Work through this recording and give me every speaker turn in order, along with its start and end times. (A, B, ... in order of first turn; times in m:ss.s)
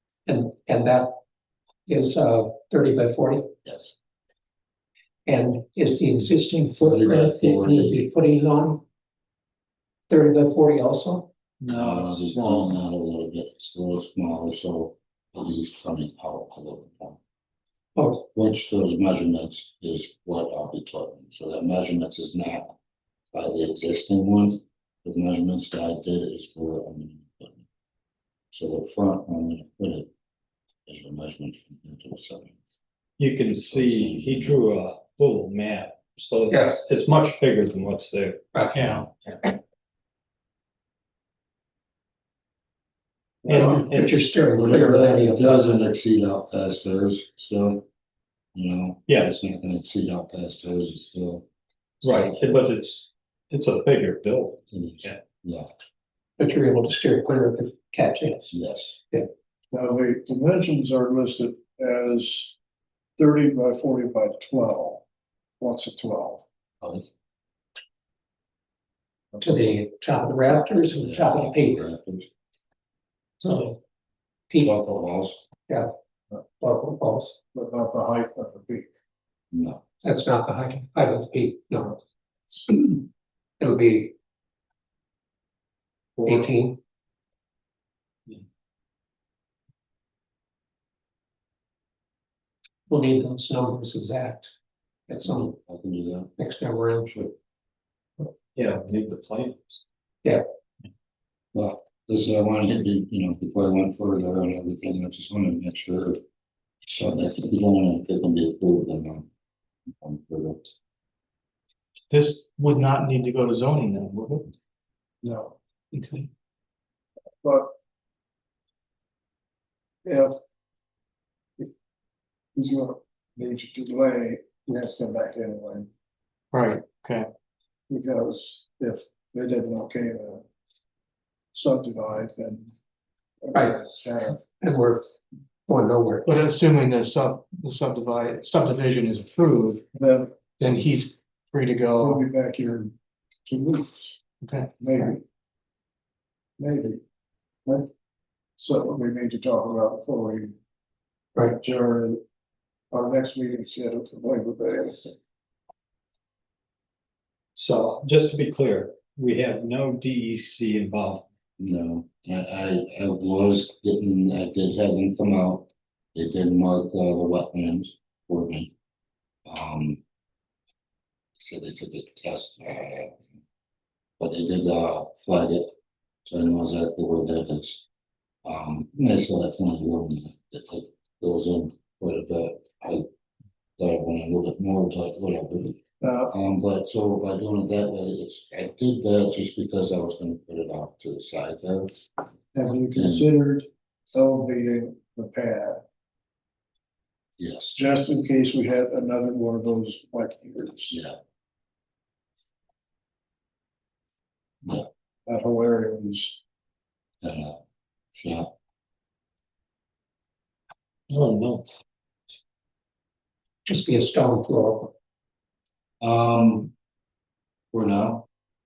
0:00.3-0:01.1 A
0:01.8-0:03.5 A
0:03.6-0:03.9 B
0:05.2-0:08.8 A
0:06.8-0:08.0 B
0:10.1-0:11.3 A
0:11.6-0:12.8 C
0:11.7-0:17.2 B
0:18.0-0:18.2 A
0:18.3-0:22.8 B
0:23.3-0:27.6 B
0:28.5-0:30.1 B
0:30.9-0:32.6 B
0:33.2-0:38.5 C
0:33.5-0:34.6 B
0:36.5-0:36.8 A
0:38.7-0:39.1 D
0:38.8-0:39.1 B
0:43.5-0:45.9 A
0:43.5-0:44.2 C
0:44.5-0:47.8 B
0:48.5-0:51.4 B
0:52.0-0:52.4 B
0:52.0-0:55.2 C
0:54.7-0:55.7 B
0:56.4-0:58.5 A
0:58.5-0:59.0 B
0:59.7-1:02.5 E
1:03.2-1:05.0 E
1:05.6-1:06.4 E
1:09.4-1:11.8 A
1:11.0-1:12.3 B
1:13.4-1:13.8 A
1:14.5-1:15.4 B
1:16.6-1:17.4 A
1:17.5-1:18.9 E
1:19.5-1:19.8 B
1:20.0-1:22.0 A
1:22.5-1:23.0 A
1:23.6-1:24.1 A
1:26.2-1:26.8 A
1:32.9-1:34.5 A
1:35.1-1:35.6 A
1:35.2-1:36.3 B
1:36.4-1:37.2 A
1:37.0-1:37.3 B
1:38.6-1:39.8 C
1:41.5-1:46.2 B
1:46.8-1:49.3 B
1:50.0-1:50.7 B
1:52.1-1:54.5 D
1:55.2-1:55.6 E
1:55.9-1:56.3 D
1:57.4-1:57.7 E
2:00.0-2:00.3 E
2:02.5-2:05.9 E
2:06.5-2:07.3 D
2:07.9-2:10.4 E
2:11.5-2:12.7 E
2:13.4-2:14.4 E
2:14.6-2:15.0 A
2:15.7-2:16.3 A
2:16.2-2:19.8 D
2:19.9-2:20.3 E
2:20.6-2:22.2 D
2:22.0-2:22.9 E
2:23.4-2:24.2 E
2:24.4-2:24.7 D
2:24.8-2:25.2 E
2:26.6-2:27.0 E
2:28.6-2:30.5 E
2:31.4-2:32.2 E
2:32.9-2:35.2 E
2:37.6-2:41.2 C
2:41.6-2:48.7 B
2:49.4-2:50.0 B
2:51.4-2:53.4 B
2:54.2-2:55.7 B
2:56.2-2:57.8 B
2:58.4-3:03.0 B
3:03.8-3:12.0 B
3:06.0-3:06.3 E
3:12.5-3:15.8 E
3:12.9-3:13.3 B
3:17.4-3:17.8 B
3:17.7-3:21.0 E
3:20.9-3:21.2 B
3:25.3-3:26.4 E
3:27.2-3:27.6 B
3:28.2-3:28.5 B
3:31.1-3:31.6 C
3:33.6-3:34.9 A
3:36.0-3:36.7 B
3:37.7-3:38.3 B